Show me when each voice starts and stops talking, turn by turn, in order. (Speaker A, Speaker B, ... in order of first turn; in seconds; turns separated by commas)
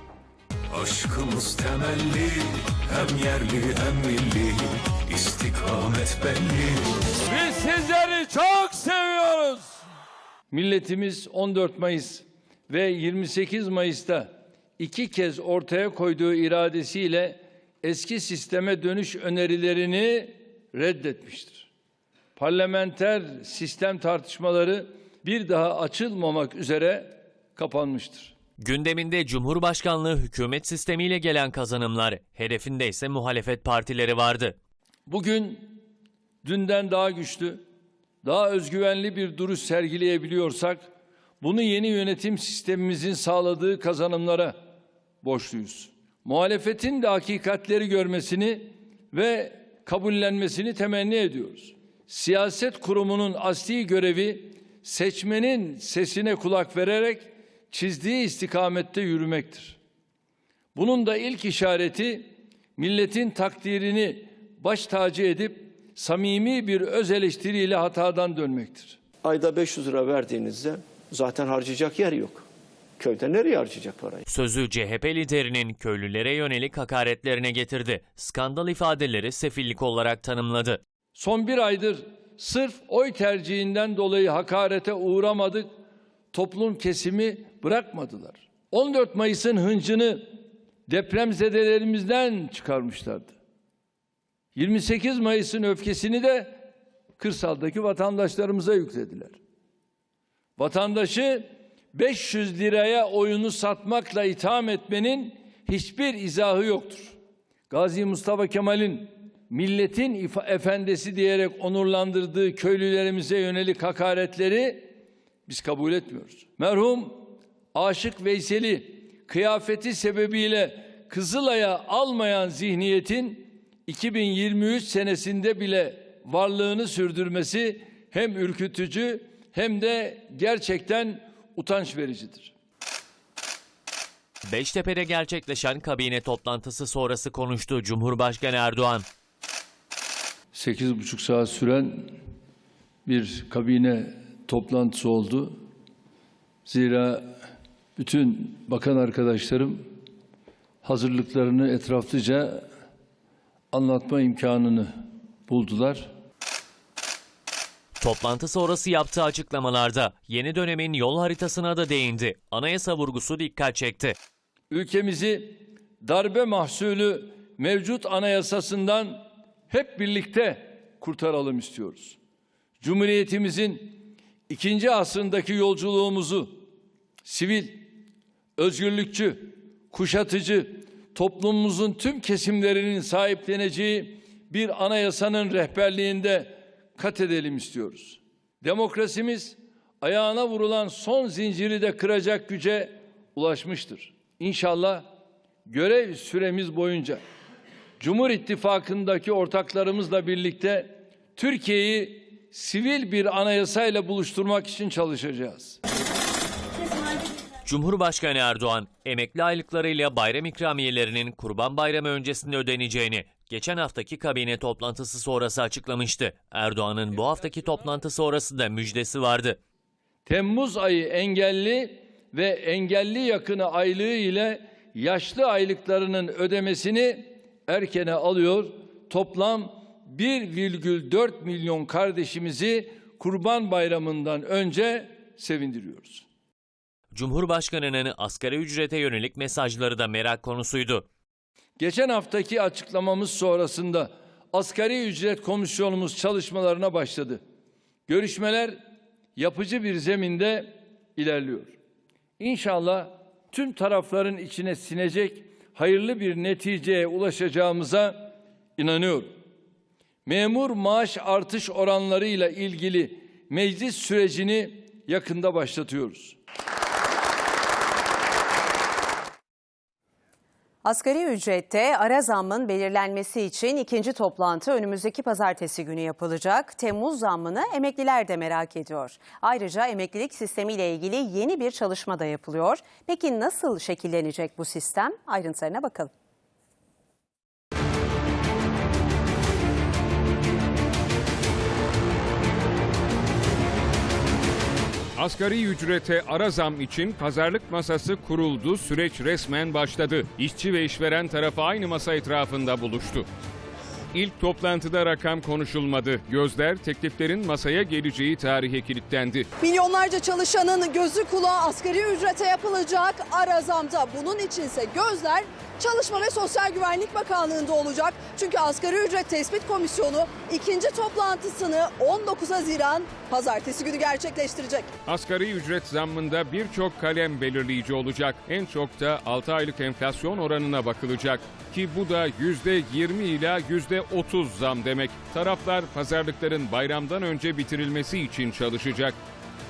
Speaker A: 0.7-6.9, Speaker B: 7.2-9.8, Speaker B: 10.5-21.7, Speaker B: 22.4-28.4, Speaker C: 28.6-34.5, Speaker B: 35.1-35.8, Speaker B: 36.4-37.6, Speaker B: 38.2-40.9, Speaker B: 41.4-44.6, Speaker B: 45.2-59.8, Speaker B: 60.7-69.0, Speaker D: 69.2-72.4, Speaker D: 73.0-74.2, Speaker C: 74.3-80.8, Speaker B: 81.1-85.7, Speaker B: 86.3-93.3, Speaker B: 94.5-96.7, Speaker B: 97.2-99.4, Speaker B: 100.6-107.2, Speaker B: 107.7-114.9, Speaker B: 115.5-132.5, Speaker C: 134.5-139.1, Speaker B: 140.5-142.1, Speaker B: 143.0-145.5, Speaker B: 146.7-147.2, Speaker B: 148.0-149.8, Speaker B: 150.8-152.6, Speaker B: 153.7-154.9, Speaker B: 155.5-156.1, Speaker C: 158.0-164.2, Speaker B: 164.7-172.2, Speaker B: 172.8-176.6, Speaker B: 177.2-177.9, Speaker B: 178.6-195.1, Speaker B: 195.7-197.2, Speaker B: 198.0-205.8, Speaker C: 207.6-219.6, Speaker B: 220.2-236.2, Speaker C: 237.1-241.1, Speaker B: 241.8-247.4, Speaker B: 248.1-248.8, Speaker B: 249.3-251.8, Speaker B: 252.4-259.3, Speaker B: 260.2-266.4, Speaker E: 270.8-286.1, Speaker F: 295.1-303.2, Speaker F: 304.1-309.5, Speaker G: 309.6-324.9, Speaker F: 325.1-339.1